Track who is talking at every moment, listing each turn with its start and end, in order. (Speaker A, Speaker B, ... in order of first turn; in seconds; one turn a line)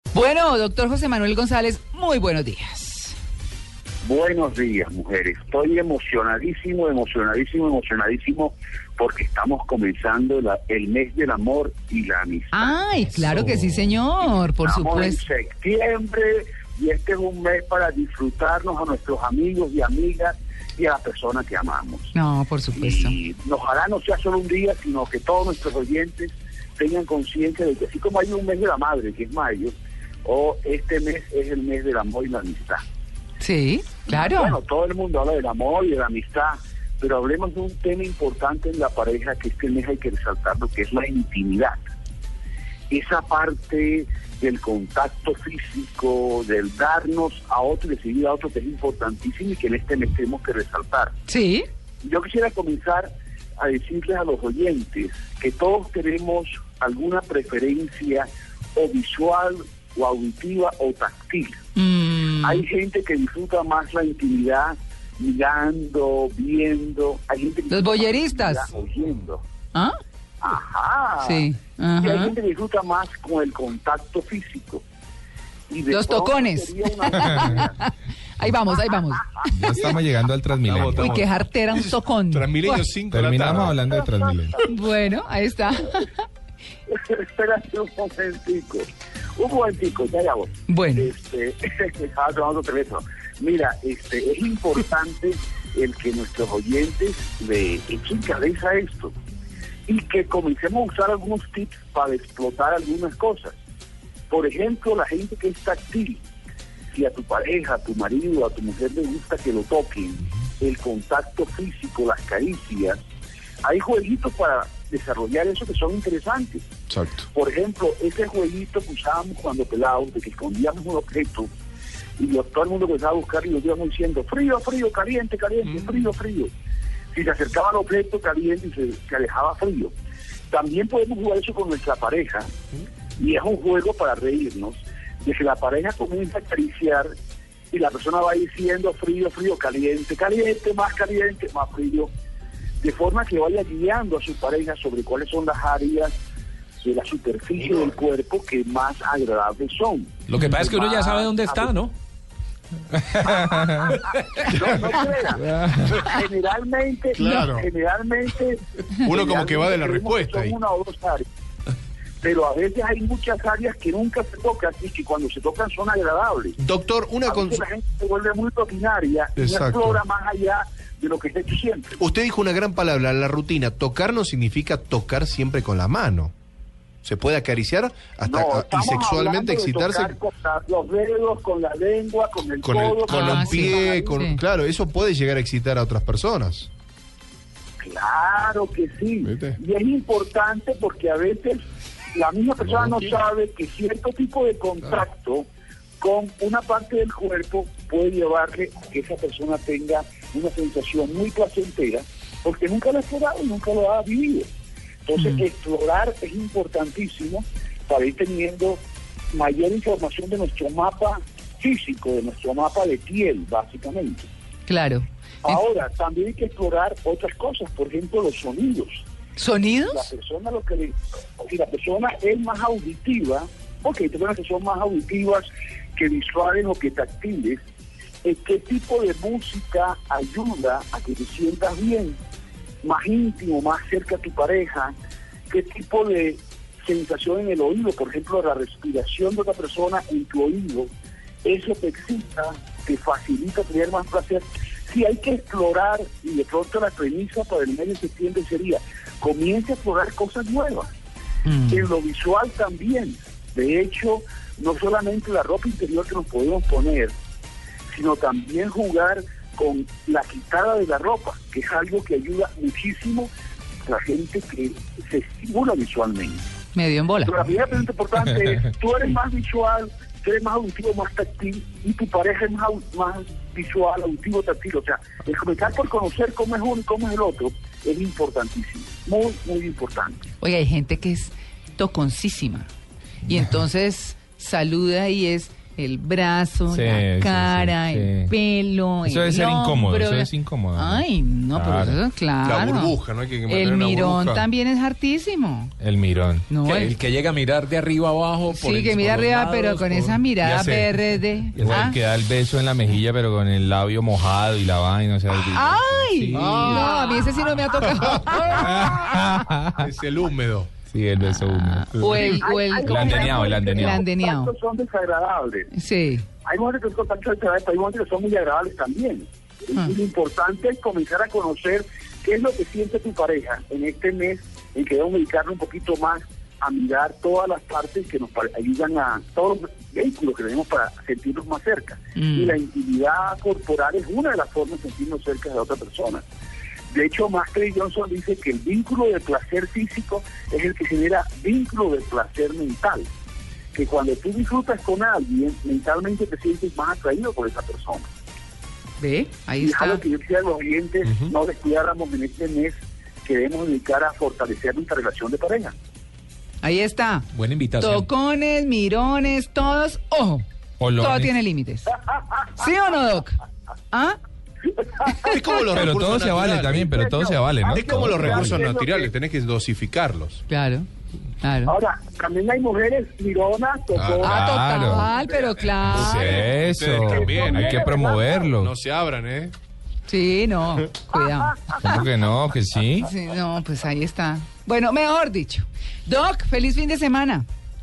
Speaker A: 0.1-3.1
Speaker B: 4.0-12.8
Speaker A: 12.5-15.2
Speaker B: 14.2-22.1
Speaker A: 22.1-23.1
Speaker B: 22.7-32.8
Speaker A: 33.4-34.6
Speaker B: 34.0-41.8
Speaker B: 42.9-51.1
Speaker A: 51.3-51.6
Speaker B: 52.0-61.6
Speaker A: 61.8-62.6
Speaker B: 62.4-69.4
Speaker A: 67.7-68.6
Speaker B: 70.4-71.5
Speaker A: 71.2-72.3
Speaker B: 72.0-74.8
Speaker B: 75.7-77.8
Speaker A: 75.9-79.8
Speaker C: 79.5-81.2
Speaker D: 80.6-83.8
Speaker A: 80.7-82.9
Speaker C: 83.1-84.6
Speaker B: 83.7-84.6
Speaker A: 84.6-86.1
Speaker B: 86.9-99.1
Speaker A: 90.7-91.1
Speaker B: 99.9-103.6
Speaker B: 104.3-106.2
Speaker B: 106.9-113.0
Speaker B: 113.6-116.7
Speaker D: 116.9-117.2
Speaker B: 117.2-121.5
Speaker B: 122.2-126.5
Speaker B: 127.1-129.9
Speaker B: 130.5-132.5
Speaker B: 133.2-137.1
Speaker B: 137.7-142.1
Speaker B: 142.8-146.1
Speaker B: 146.8-151.7
Speaker E: 150.3-151.9
Speaker C: 153.1-153.9
Speaker B: 153.2-161.2
Speaker C: 155.5-155.9
Speaker D: 157.1-157.7
Speaker D: 159.0-160.6
Speaker B: 162.2-166.6
Speaker D: 166.6-167.6
Speaker B: 167.2-172.0
Speaker D: 169.4-170.0
Speaker D: 172.0-176.3
Speaker D: 177.0-180.2
Speaker B: 178.2-184.2
Speaker D: 182.6-186.7
Speaker A: 183.1-184.4
Speaker B: 187.8-191.6
Speaker D: 189.2-189.6
Speaker B: 192.1-195.5
Speaker D: 192.6-193.1
Speaker B: 196.0-204.5
Speaker B: 205.1-214.3
Speaker A: 214.7-215.6
Speaker B: 215.4-219.0
Speaker A: 219.3-220.1
Speaker B: 219.9-227.6
Speaker B: 228.2-232.2
Speaker B: 232.8-234.9
Speaker B: 235.5-240.9
Speaker B: 241.4-250.9
Speaker A: 251.4-251.9
Speaker B: 251.7-257.1
Speaker B: 257.9-263.3
Speaker B: 263.9-266.4
Speaker A: 266.7-267.3
Speaker B: 267.2-280.2
Speaker A: 280.4-282.7
Speaker A: 283.2-295.7
Speaker C: 286.7-288.3
Speaker C: 289.0-292.0
Speaker D: 292.4-294.5
Speaker C: 295.8-296.4
Speaker A: 296.5-296.9
Speaker E: 296.6-300.2
Speaker A: 298.5-302.0
Speaker C: 301.5-306.7
Speaker A: 305.4-309.2
Speaker D: 306.3-308.4
Speaker C: 308.5-309.9
Speaker D: 309.8-310.7
Speaker C: 310.9-314.0
Speaker A: 311.2-314.5
Speaker B: 312.1-315.7
Speaker A: 315.7-316.2
Speaker B: 316.4-336.2
Speaker A: 332.1-332.6
Speaker B: 336.9-343.1
Speaker B: 343.7-348.1
Speaker A: 349.0-350.0
Speaker B: 349.6-355.7
Speaker A: 356.6-357.2
Speaker E: 357.4-358.0
Speaker A: 357.8-360.4
Speaker C: 360.8-361.3
Speaker A: 360.9-361.9
Speaker A: 362.6-363.4
Speaker A: 363.9-364.2
Speaker A: 365.0-365.4
Speaker D: 365.2-370.4
Speaker C: 365.7-368.5
Speaker B: 367.7-369.1
Speaker A: 370.5-370.9
Speaker A: 371.4-371.7
Speaker B: 371.6-374.8
Speaker D: 373.9-379.5
Speaker C: 374.2-375.1
Speaker A: 374.2-376.5
Speaker C: 375.9-378.7
Speaker B: 377.1-378.2
Speaker A: 380.1-382.1
Speaker C: 381.8-383.1
Speaker A: 383.0-387.4